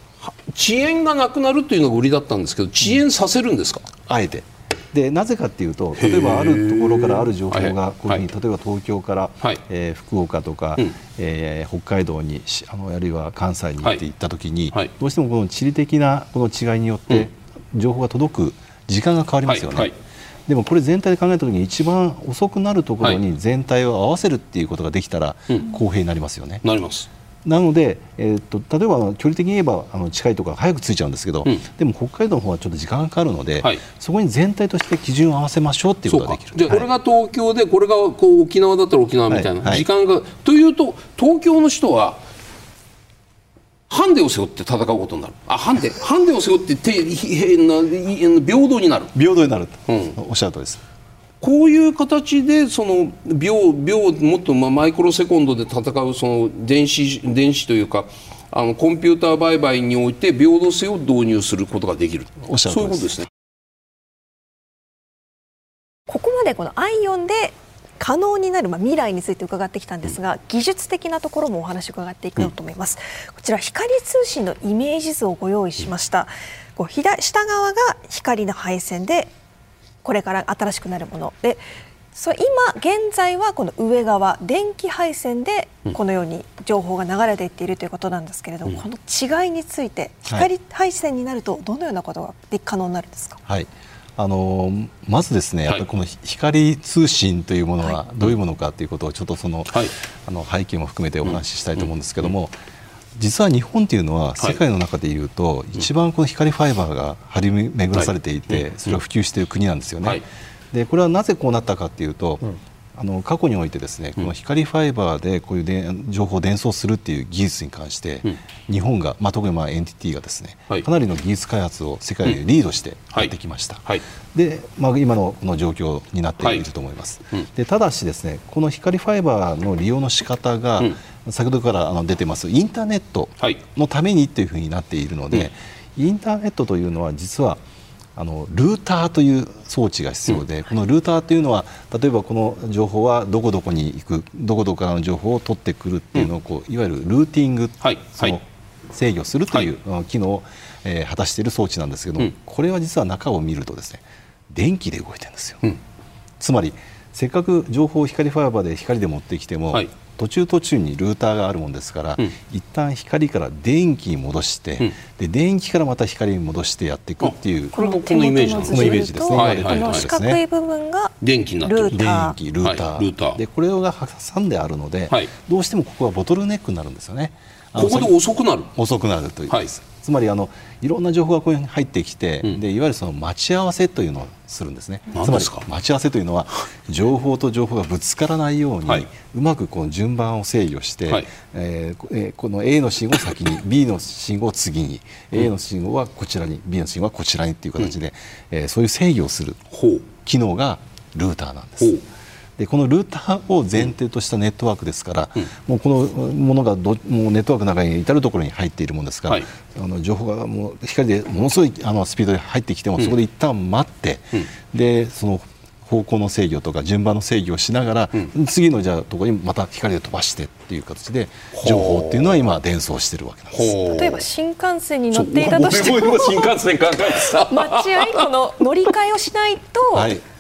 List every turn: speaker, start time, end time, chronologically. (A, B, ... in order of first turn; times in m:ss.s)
0:00.2-0:03.9 A
0:04.1-0:19.9 B
0:06.0-0:08.2 A
0:19.5-0:19.9 A
0:20.5-0:26.6 B
0:26.6-0:27.1 A
0:27.4-0:36.9 B
0:36.1-0:42.2 A
0:39.3-0:39.9 B
0:43.9-0:49.1 A
0:49.1-0:50.8 B
0:49.9-0:50.2 A
0:51.4-1:03.3 A
1:02.5-1:03.2 B
1:06.1-1:19.3 C
1:20.0-1:33.4 C
1:33.5-1:42.5 B
1:43.2-1:52.4 B
1:53.0-2:17.6 B
2:18.2-2:35.7 B
2:27.8-2:28.4 A
2:36.4-2:47.8 B
2:47.2-2:50.1 A
2:47.8-2:51.1 C
2:48.6-2:50.4 B
2:51.2-2:52.0 A
2:51.6-2:52.4 C
2:51.9-2:58.1 B
2:52.6-2:53.4 A
2:57.8-2:58.7 A
2:58.8-3:19.6 B
3:05.1-3:05.6 A
3:19.7-3:20.1 A
3:20.2-3:22.0 B
3:22.6-3:43.8 B
3:41.6-3:42.5 A
3:43.5-3:44.2 A
3:43.9-3:46.6 C
3:45.1-3:48.3 A
3:47.4-3:50.2 C
3:49.9-3:50.2 B